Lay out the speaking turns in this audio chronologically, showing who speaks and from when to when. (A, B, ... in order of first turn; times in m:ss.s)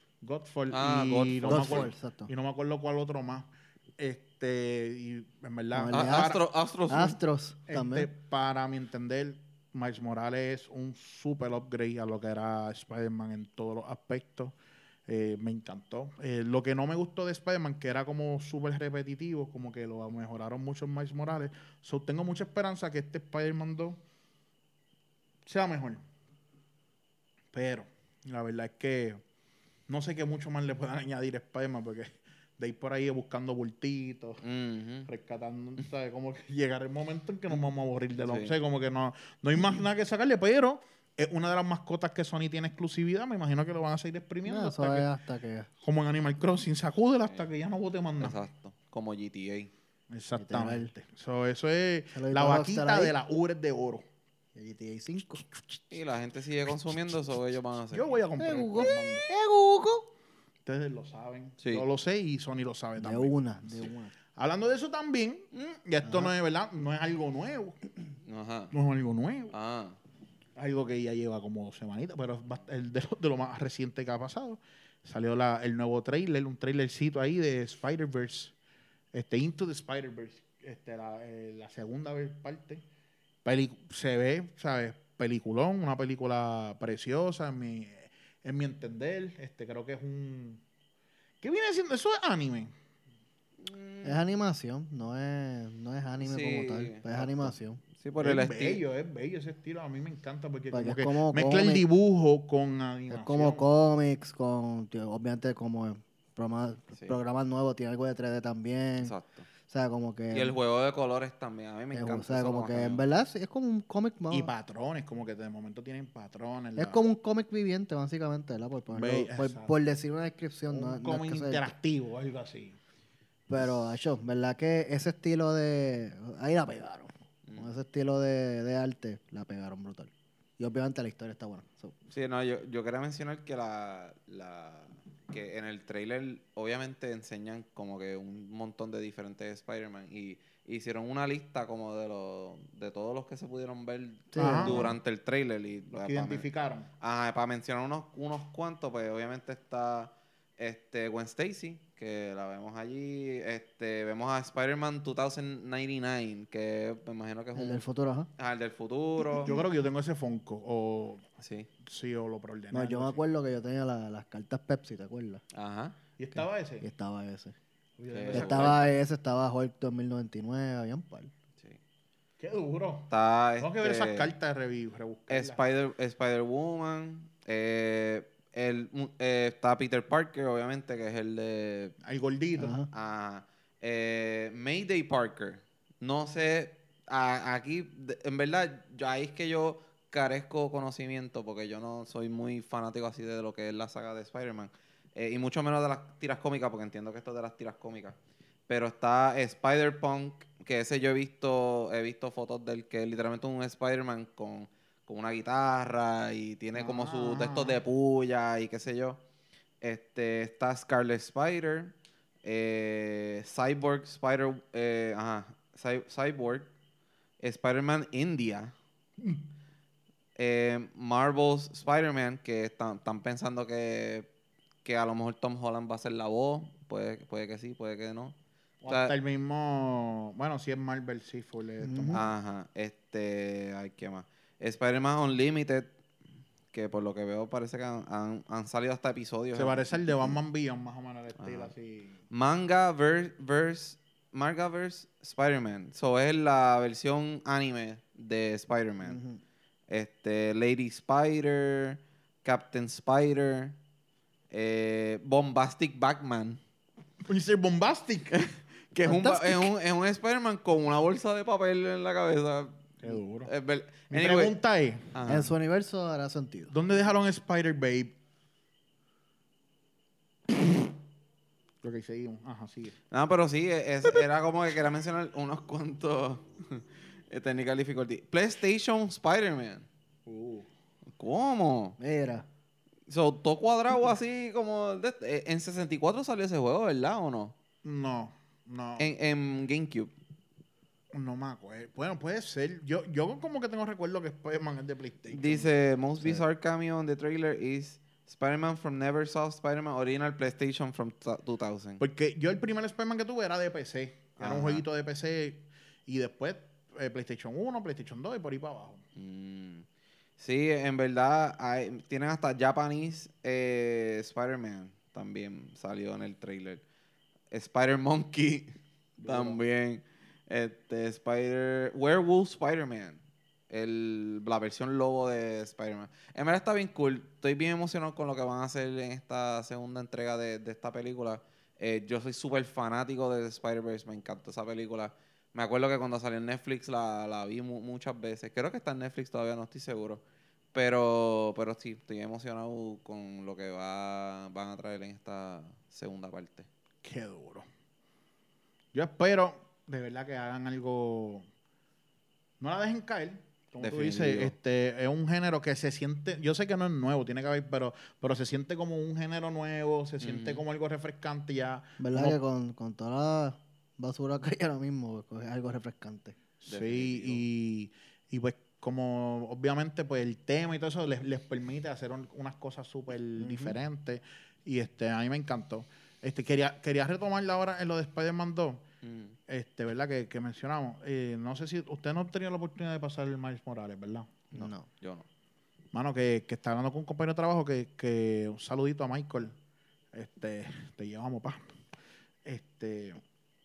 0:00.2-0:06.4 A
0:00.7-0:01.9 B
0:01.5-0:02.3 C
0:05.7-0:08.1 C
0:05.9-0:07.2 B
0:07.7-0:14.5 A
0:15.1-0:24.0 A
0:25.4-0:26.0 A
0:27.5-0:29.2 A
0:29.9-0:34.4 A
0:34.4-0:35.1 B
0:35.0-0:45.1 A
0:38.2-0:38.5 B
0:44.4-0:45.7 C
0:45.8-0:48.4 A
0:48.2-0:49.7 B
0:50.1-0:54.0 A
0:50.4-0:50.9 C
0:52.1-0:53.1 C
0:54.5-0:55.4 C
0:55.9-0:58.2 B
0:57.9-0:59.3 A
0:58.4-1:00.1 C
1:00.6-1:07.8 A
1:01.6-1:01.8 B
1:03.0-1:04.1 C
1:06.0-1:06.3 C
1:08.2-1:08.7 B
1:08.7-1:09.5 A
1:09.5-1:10.0 B
1:10.6-1:18.5 A
1:19.1-1:22.8 A
1:23.4-1:30.6 A
1:31.4-1:32.7 A
1:33.6-1:34.2 B
1:34.0-1:37.8 C
1:36.2-1:38.8 B
1:38.2-1:43.6 A
1:40.7-1:41.8 C
1:43.1-1:49.1 C
1:49.0-1:49.5 B
1:49.6-1:50.6 C
1:50.3-1:53.1 B
1:51.9-1:54.5 C
1:54.3-1:57.0 A
1:56.8-2:01.7 C
1:58.9-1:59.7 A
2:00.7-2:02.8 A
2:03.5-2:12.0 C
2:07.4-2:07.7 B
2:12.1-2:26.5 B
2:24.3-2:24.9 C
2:24.4-2:24.9 A
2:25.9-2:26.9 A
2:27.0-2:37.8 B
2:37.6-2:38.3 C
2:38.4-2:39.5 B
2:39.4-2:41.2 A
2:41.4-2:41.7 B
2:41.8-2:43.2 A
2:42.7-2:45.4 C
2:45.5-2:46.0 B
2:46.2-2:46.9 A
2:46.3-2:47.6 C
2:48.0-2:48.8 A
2:48.1-2:48.8 B
2:48.3-2:51.3 C
2:52.4-2:55.6 A
2:53.1-2:54.3 B
2:55.3-3:02.0 B
3:02.0-3:02.8 A
3:02.6-3:02.9 C
3:02.9-3:18.2 B
3:18.7-3:29.2 B
3:26.7-3:27.8 A
3:29.8-3:36.7 B
3:37.4-3:38.7 B
3:39.2-3:39.4 A
3:40.4-3:44.3 B
3:44.8-3:48.4 B
3:48.8-3:52.3 A
3:48.9-3:49.1 B
3:51.8-3:52.2 C
3:52.1-3:55.9 B
3:56.7-4:00.4 B
3:59.6-4:02.2 A
4:01.4-4:01.7 B
4:02.3-4:09.2 B
4:09.0-4:09.4 C
4:09.9-4:13.8 B
4:14.5-4:16.6 B
4:17.2-4:18.4 A
4:18.3-4:24.6 B
4:19.0-4:19.7 C
4:23.0-4:23.5 A
4:24.1-4:25.1 A
4:25.1-4:25.5 B
4:25.2-4:26.7 C
4:26.7-4:28.1 A
4:31.8-4:32.9 A
4:33.1-4:39.9 B
4:40.2-4:40.7 A
4:41.1-4:42.0 B
4:42.0-4:42.5 C
4:43.1-4:47.6 B
4:47.8-4:49.1 A
4:49.0-4:50.1 B
4:51.1-4:55.7 A
4:55.3-5:02.0 B
5:02.0-5:09.0 A
5:04.4-5:04.8 B
5:09.2-5:09.8 B
5:10.4-5:16.8 B
5:17.5-5:18.7 B
5:19.2-5:19.6 A
5:19.2-5:40.2 B
5:40.7-5:46.7 B
5:47.0-5:47.7 A
5:48.9-5:51.4 A
5:52.6-6:02.4 A
5:53.8-5:54.6 B
6:00.2-6:00.6 B
6:02.0-6:06.4 C
6:06.6-6:18.8 A
6:06.7-6:07.4 B
6:13.4-6:13.8 C
6:19.0-6:19.4 B
6:19.5-6:24.4 A
6:24.5-6:24.9 C
6:24.5-6:25.2 B
6:25.9-6:29.6 A
6:30.1-6:31.6 A
6:32.4-6:33.2 A